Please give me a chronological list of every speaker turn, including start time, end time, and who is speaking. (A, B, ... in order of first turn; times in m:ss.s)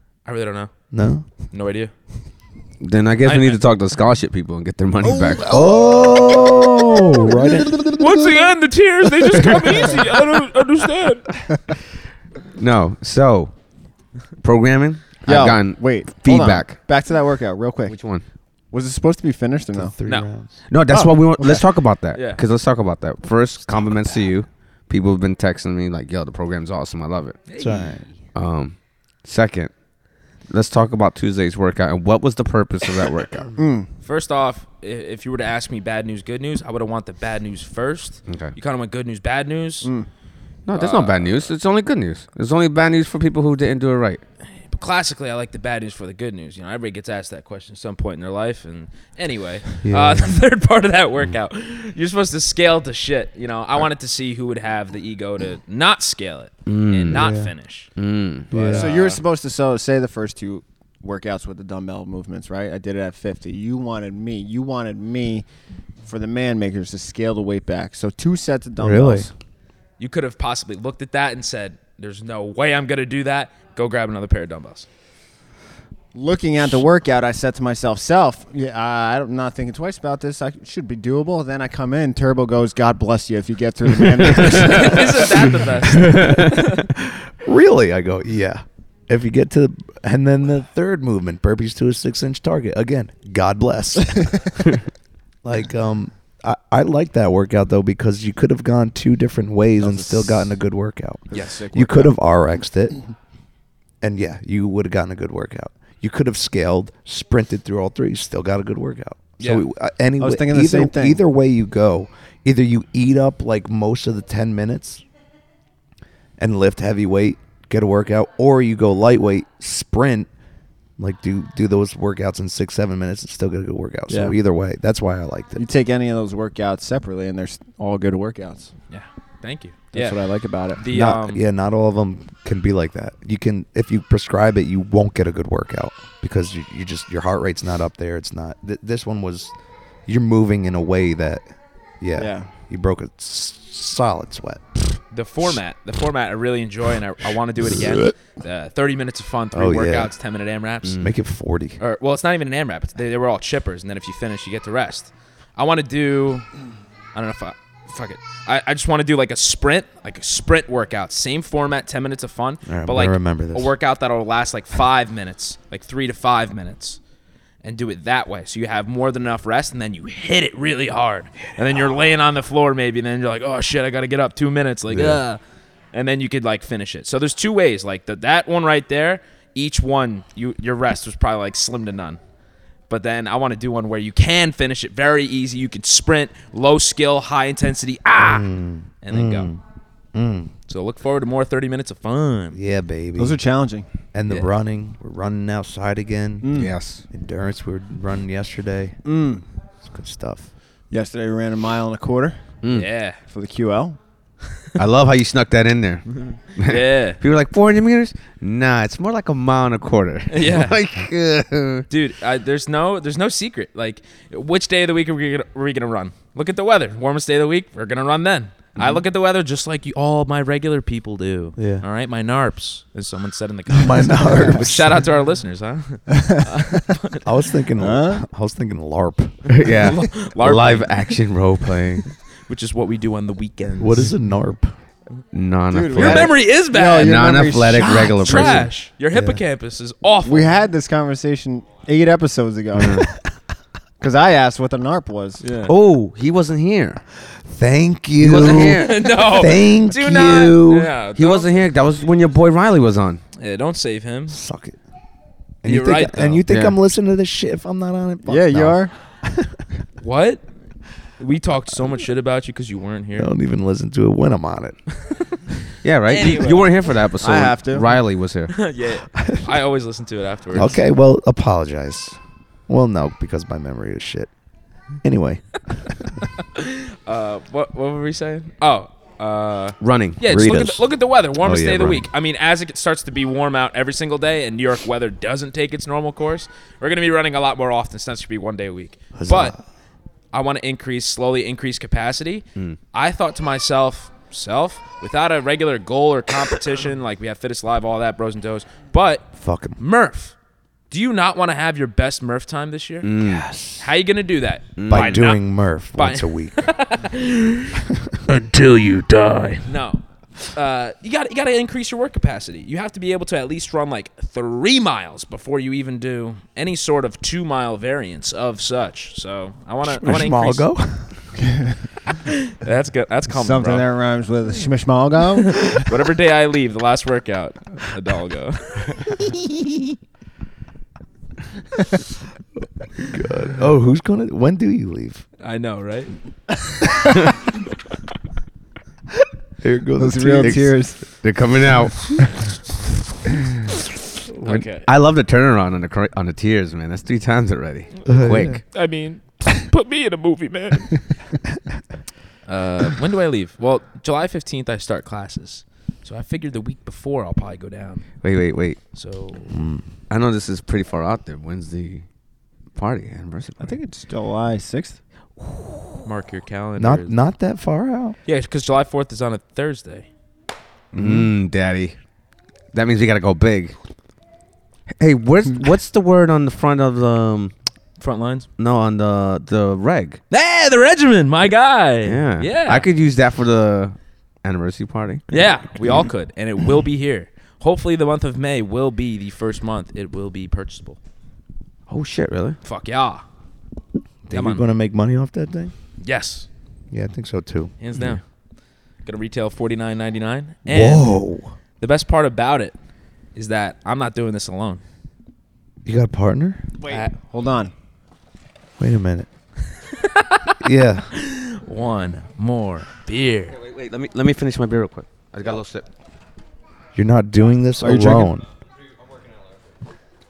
0:00.3-0:00.7 A
0:00.9-0:01.3 B
0:01.5-0:01.9 A
0:02.8-0:05.5 C
0:03.2-0:03.6 A
0:05.0-0:08.4 D
0:05.5-0:07.8 B
0:08.0-0:11.3 A
0:12.6-0:13.5 C
0:14.4-0:16.8 C
0:15.2-0:18.0 D
0:17.9-0:18.2 C
0:18.7-0:19.9 D
0:19.8-0:20.6 B
0:20.7-0:27.4 C
0:20.9-0:21.7 D
0:22.1-0:22.4 A
0:27.5-0:27.9 A
0:27.6-0:28.1 B
0:28.4-0:29.7 C
0:30.5-0:33.5 C
0:33.6-0:33.9 D
0:34.0-0:39.9 A
0:38.3-0:38.5 C
0:40.7-0:44.2 C
0:40.8-0:41.5 A
0:44.7-0:57.9 A
0:49.8-0:50.4 B
0:56.7-0:57.3 C
0:57.1-0:57.5 B
0:58.0-0:58.5 C
0:58.5-0:58.9 B
0:58.5-1:05.4 D
0:58.6-0:59.2 A
1:06.1-1:09.3 D
1:08.8-1:09.3 B
1:10.0-1:14.9 A
1:16.1-1:25.7 D
1:24.5-1:26.9 A
1:26.0-1:26.5 C
1:27.1-1:34.6 B
1:35.4-1:43.0 B
1:39.8-1:40.4 D
1:41.3-1:42.1 D
1:41.3-1:41.6 A
1:44.0-1:55.0 B
1:49.4-1:49.6 A
1:50.2-1:51.2 D
1:56.4-2:00.3 B
2:01.0-2:05.6 B
2:04.1-2:04.4 D
2:05.6-2:08.7 D
2:08.9-2:10.2 A
2:09.9-2:11.1 D
2:10.8-2:11.4 A
2:10.9-2:19.6 B
2:20.1-2:25.0 B
2:22.2-2:22.5 D
2:25.1-2:31.0 A
2:29.5-2:30.1 B
2:30.9-2:31.1 C
2:31.0-2:31.8 B
2:31.8-2:36.5 A
2:37.2-2:47.0 A
2:42.7-2:43.7 B
2:47.6-2:55.4 A
2:54.9-2:55.2 B
2:55.9-3:02.2 A
3:02.9-3:08.5 A
3:08.2-3:09.6 B
3:09.0-3:09.5 A
3:10.1-3:10.5 B
3:10.7-3:12.6 A
3:12.5-3:13.4 B
3:13.2-3:13.9 D
3:14.1-3:16.5 B
3:16.4-3:16.7 D
3:16.5-3:17.0 C
3:17.1-3:19.0 B
3:19.1-3:19.4 D
3:19.8-3:20.5 B
3:20.9-3:22.4 D
3:22.6-3:22.9 C
3:22.7-3:23.2 A
3:23.3-3:24.0 D
3:24.8-3:31.9 C
3:26.7-3:27.2 A
3:30.3-3:30.8 A
3:31.9-3:47.2 A
3:41.6-3:41.8 B
3:43.7-3:45.1 B
3:46.2-3:46.8 D
3:47.2-3:49.5 B
3:47.8-3:48.2 D
3:49.5-3:52.1 C
3:49.6-3:51.2 A
3:52.5-3:54.1 A
3:53.8-3:54.8 B
3:55.3-3:56.4 C
3:55.7-3:58.7 D
3:55.9-3:57.2 A
3:56.9-3:58.7 C
3:57.8-4:00.5 A
3:59.1-3:59.4 B
4:00.2-4:03.1 D
4:02.8-4:03.1 C
4:04.0-4:05.7 D
4:05.4-4:05.7 A
4:05.6-4:07.0 C
4:07.3-4:10.9 B
4:08.2-4:09.1 C
4:08.4-4:11.6 A
4:11.2-4:13.2 C
4:13.4-4:14.4 A
4:14.3-4:14.8 B
4:15.6-4:19.6 B
4:15.6-4:16.4 A
4:16.5-4:16.8 C
4:18.2-4:18.9 D
4:20.0-4:20.4 A
4:21.2-4:23.3 A
4:23.2-4:24.8 B
4:25.1-4:25.4 A
4:25.8-4:28.5 C
4:26.1-4:26.7 A
4:27.2-4:27.9 D
4:28.5-4:30.8 A
4:29.2-4:29.6 B
4:30.5-4:34.3 B
4:35.0-4:36.1 B
4:36.5-4:49.6 A
4:39.8-4:40.2 C
4:40.2-4:40.9 B
4:41.4-4:42.1 B
4:49.2-4:49.6 B
4:50.3-5:00.4 A
4:59.4-4:59.8 B
5:00.9-5:03.2 A
5:03.0-5:03.5 C
5:03.2-5:03.9 B
5:03.8-5:05.4 A
5:04.8-5:05.2 C
5:04.9-5:06.7 B
5:06.0-5:08.5 A
5:07.8-5:08.2 B
5:09.6-5:20.6 A
5:19.8-5:21.2 B
5:21.4-5:21.8 D
5:22.2-5:23.9 A
5:23.3-5:25.8 D
5:25.6-5:29.2 A
5:33.0-5:35.2 B
5:35.4-5:36.1 A
5:39.6-5:40.7 B
5:40.0-5:41.0 D
5:40.4-5:42.2 C
5:44.4-5:44.9 A
5:44.4-5:48.6 C
5:48.0-5:51.2 A
5:48.1-5:48.6 B
5:52.5-5:58.1 A
5:58.2-5:58.8 C
5:58.9-5:59.6 A
5:59.5-5:59.9 B
6:00.1-6:02.0 C
6:02.8-6:03.8 C
6:03.6-6:05.0 D
6:06.0-6:07.2 A
6:06.8-6:08.2 B
6:08.3-6:10.1 A
6:10.9-6:11.3 D
6:10.9-6:12.0 C
6:12.7-6:13.8 C
6:15.0-6:17.5 C
6:18.0-6:18.5 A
6:18.6-6:20.2 C
6:20.3-6:22.9 A
6:22.0-6:25.2 C
6:25.3-6:31.0 A
6:31.9-6:32.6 C
6:32.6-6:33.2 A
6:34.3-6:35.7 B
6:34.3-6:34.6 A
6:36.0-6:36.5 A
6:36.9-6:37.7 B
6:37.8-6:38.2 A
6:39.0-6:41.1 A
6:40.7-6:41.5 B
6:41.8-6:42.8 A
6:43.4-6:44.8 A
6:45.8-6:46.7 B
6:46.8-6:47.7 D
6:48.8-6:49.3 B
6:49.9-6:50.6 A
6:50.6-6:51.1 B
6:51.1-6:53.6 A
6:53.5-6:55.9 C
6:57.0-6:58.5 B
6:57.8-6:58.3 D